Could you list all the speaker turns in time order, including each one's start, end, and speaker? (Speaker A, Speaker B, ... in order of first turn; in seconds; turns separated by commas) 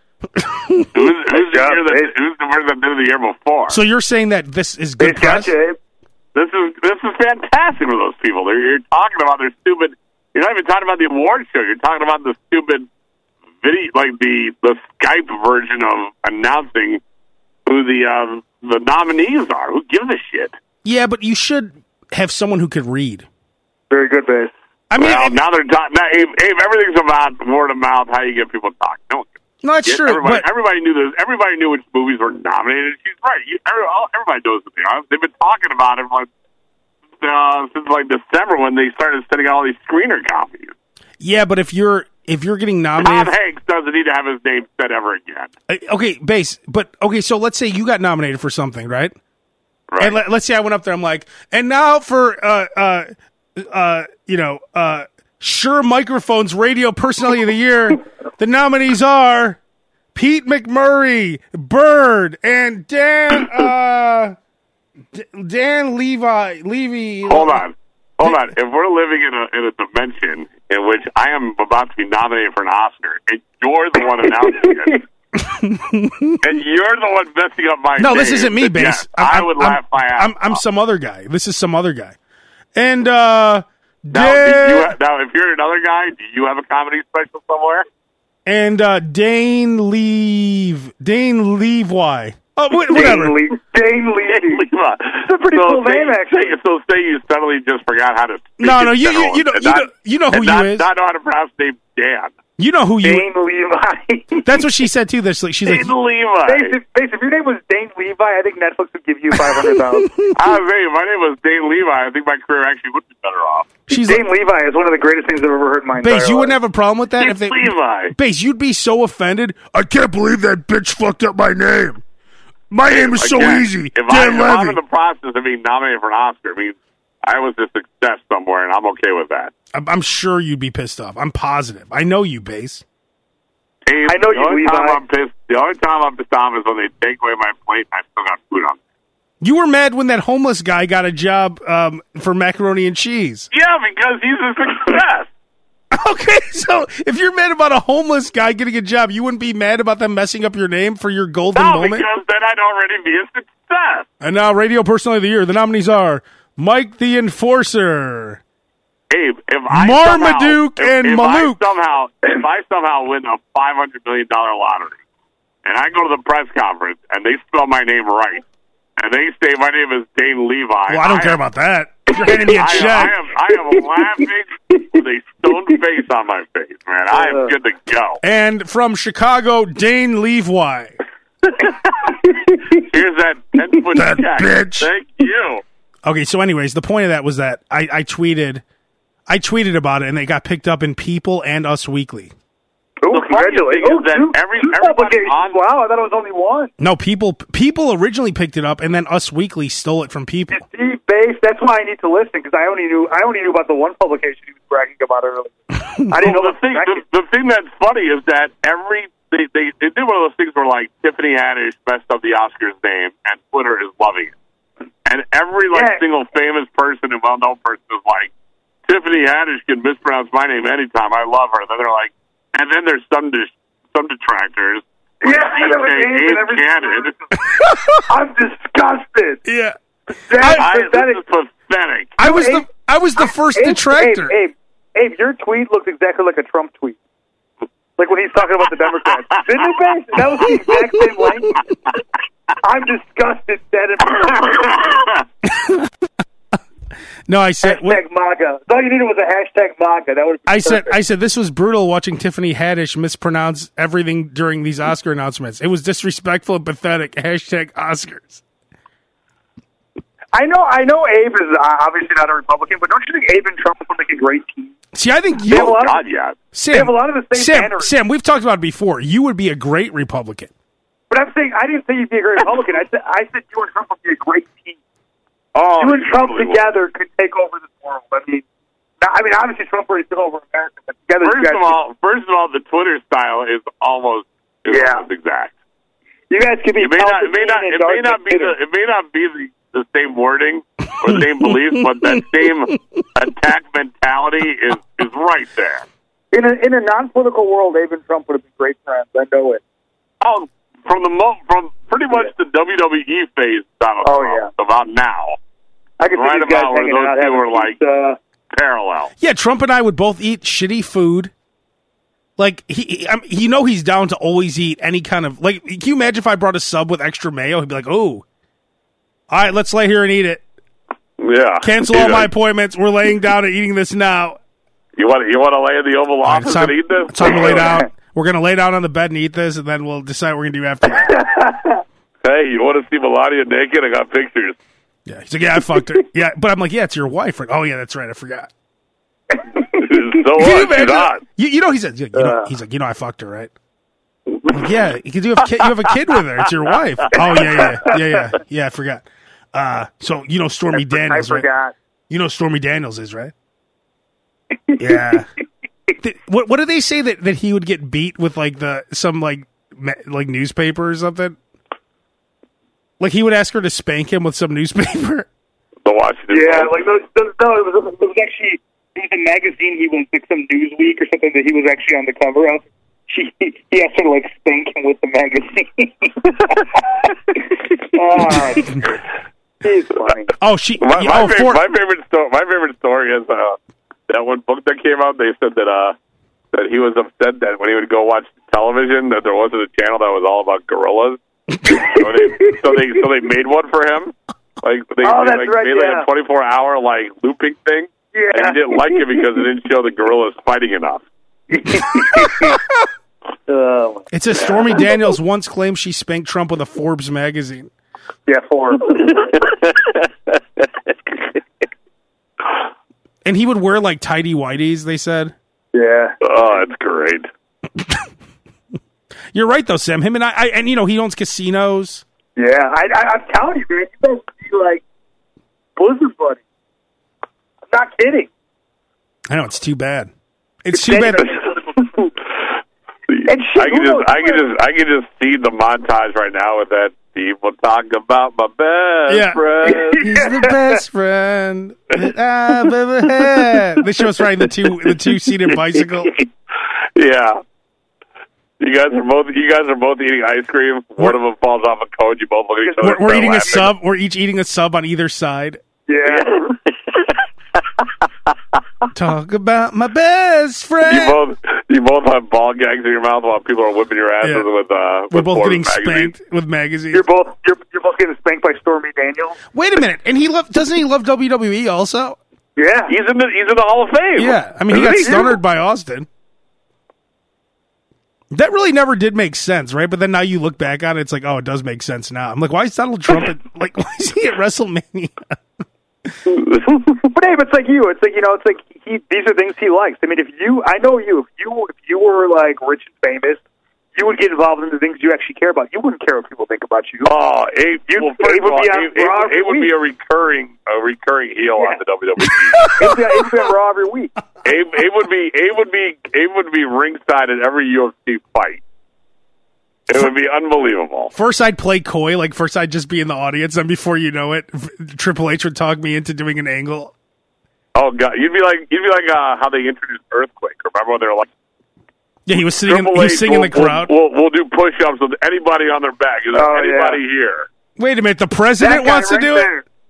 Speaker A: 0.3-1.1, Speaker B: 0.9-3.8, Speaker C: 1.3-2.1, Speaker A: 3.7-5.5, Speaker C: 5.0-5.8, Speaker B: 6.3-12.9, Speaker B: 13.6-17.0, Speaker B: 17.7-20.5, Speaker A: 20.9-23.3, Speaker C: 23.9-24.5, Speaker A: 24.9-25.4, Speaker B: 25.0-36.3, Speaker A: 29.6-30.4, Speaker B: 37.2-40.7, Speaker A: 41.2-43.3, Speaker B: 43.0-45.5, Speaker A: 45.7-49.1, Speaker B: 49.9-50.2, Speaker A: 50.0-59.6, Speaker A: 60.1-64.3, Speaker A: 65.1-67.6, Speaker B: 67.3-75.0, Speaker C: 74.3-75.0, Speaker A: 75.3-76.4, Speaker B: 76.4-80.6, Speaker A: 78.0-82.2, Speaker A: 82.8-84.9, Speaker B: 84.1-87.8, Speaker A: 88.5-93.4, Speaker C: 92.9-94.7, Speaker B: 94.3-102.4, Speaker C: 95.2-96.6, Speaker A: 98.6-100.9, Speaker A: 102.6-103.3, Speaker C: 103.0-104.7, Speaker A: 104.4-105.9, Speaker B: 105.7-106.8, Speaker C: 106.5-110.1, Speaker A: 109.5-110.6, Speaker B: 110.3-113.7, Speaker A: 113.9-114.2, Speaker C: 113.9-116.6, Speaker A: 116.0-122.0, Speaker B: 117.2-118.1, Speaker A: 122.7-124.8, Speaker B: 122.9-129.5, Speaker A: 129.7-132.8, Speaker B: 133.9-138.8, Speaker C: 134.1-135.0, Speaker A: 139.4-143.5, Speaker B: 143.5-145.3, Speaker A: 145.9-152.1, Speaker B: 151.6-154.1, Speaker A: 154.2-158.4, Speaker B: 159.1-165.0, Speaker A: 159.7-161.6, Speaker B: 165.7-168.4, Speaker B: 169.0-171.4, Speaker A: 170.9-173.2, Speaker C: 172.2-172.6, Speaker B: 172.3-178.2, Speaker C: 177.1-177.5, Speaker A: 178.2-181.0, Speaker C: 182.1-182.9, Speaker B: 182.7-185.6, Speaker A: 183.9-184.9, Speaker A: 186.1-188.6, Speaker A: 189.3-192.3, Speaker C: 193.0-196.7, Speaker B: 193.1-195.6, Speaker A: 196.8-200.6, Speaker C: 200.5-207.0, Speaker B: 206.2-214.3, Speaker B: 215.1-218.3, Speaker C: 215.7-216.0, Speaker B: 218.9-227.1, Speaker C: 225.2-227.2, Speaker A: 227.5-228.0, Speaker C: 228.1-229.4, Speaker A: 229.4-229.8, Speaker C: 230.2-231.2, Speaker A: 230.3-230.7, Speaker B: 230.4-232.2, Speaker A: 232.2-234.3, Speaker C: 232.2-232.7, Speaker C: 233.6-237.0, Speaker C: 238.0-241.6, Speaker C: 242.6-244.9, Speaker A: 245.4-245.9, Speaker A: 247.3-248.0, Speaker C: 247.6-251.0, Speaker A: 250.5-258.4, Speaker C: 260.3-264.8, Speaker A: 264.9-265.8, Speaker C: 265.5-266.0, Speaker B: 265.5-266.4, Speaker A: 266.5-270.5, Speaker C: 266.7-267.9, Speaker C: 271.1-274.8, Speaker B: 275.6-276.6, Speaker C: 275.8-278.4, Speaker C: 279.0-281.8, Speaker B: 281.2-285.5, Speaker C: 284.7-285.1, Speaker C: 286.3-288.5, Speaker B: 286.8-295.9, Speaker A: 291.1-291.8, Speaker C: 296.3-299.6, Speaker B: 300.2-305.4, Speaker C: 304.0-304.5, Speaker C: 306.0-308.2, Speaker B: 306.1-307.8, Speaker B: 308.5-309.1, Speaker A: 309.2-311.3, Speaker A: 312.4-318.2, Speaker A: 319.3-320.4, Speaker B: 321.2-322.3, Speaker A: 321.6-324.4, Speaker B: 325.0-327.7, Speaker A: 326.2-331.3, Speaker C: 327.2-327.9, Speaker C: 330.9-331.8, Speaker B: 332.2-334.6, Speaker A: 335.1-338.5, Speaker C: 339.5-340.0, Speaker B: 339.7-341.2, Speaker A: 340.3-343.5, Speaker C: 342.1-342.5, Speaker B: 344.3-344.6, Speaker A: 344.5-351.5, Speaker B: 345.6-345.9, Speaker C: 347.1-348.0, Speaker C: 350.7-351.7, Speaker A: 352.1-353.3, Speaker C: 354.7-355.2, Speaker A: 354.8-355.3, Speaker A: 356.0-361.4, Speaker A: 363.0-365.3, Speaker B: 365.8-366.8, Speaker C: 366.3-378.9, Speaker C: 379.6-380.3, Speaker A: 380.4-381.6, Speaker B: 380.8-383.6, Speaker B: 384.1-385.9, Speaker B: 386.5-401.0, Speaker C: 391.8-392.6, Speaker C: 395.0-396.1, Speaker C: 398.1-399.2, Speaker C: 401.5-402.6, Speaker A: 402.1-402.5, Speaker C: 403.5-404.8, Speaker A: 404.1-407.7, Speaker C: 408.3-409.2, Speaker B: 409.0-410.4, Speaker A: 413.2-415.4, Speaker C: 415.7-416.2, Speaker B: 416.2-417.3, Speaker A: 417.8-418.0, Speaker A: 419.3-422.0, Speaker C: 422.4-424.8, Speaker C: 425.8-426.4, Speaker C: 427.7-428.3, Speaker A: 429.3-430.1, Speaker A: 430.6-431.3, Speaker C: 430.7-432.1, Speaker B: 433.1-440.0, Speaker C: 433.2-434.4, Speaker A: 439.1-446.2, Speaker C: 439.7-440.8, Speaker B: 446.9-447.4, Speaker B: 448.6-453.7, Speaker C: 452.6-453.5, Speaker A: 452.8-455.6, Speaker C: 455.9-456.4, Speaker B: 456.1-457.1, Speaker A: 458.9-461.2, Speaker B: 460.9-466.1, Speaker A: 464.2-464.5, Speaker A: 465.1-467.1, Speaker C: 466.9-469.4, Speaker A: 469.5-472.2, Speaker C: 472.6-472.9, Speaker B: 472.9-475.2, Speaker A: 474.2-476.1, Speaker C: 475.0-475.4, Speaker A: 478.3-485.4, Speaker B: 486.4-486.8, Speaker C: 487.0-493.4, Speaker C: 494.0-497.1, Speaker B: 497.1-502.7, Speaker C: 497.9-499.7, Speaker A: 502.5-503.3, Speaker C: 502.8-504.1, Speaker B: 504.4-508.6, Speaker B: 509.9-511.1, Speaker A: 511.1-516.9, Speaker B: 517.8-521.3, Speaker A: 522.3-523.9, Speaker B: 522.7-527.5, Speaker C: 526.3-527.0, Speaker A: 527.8-529.5, Speaker C: 528.6-529.6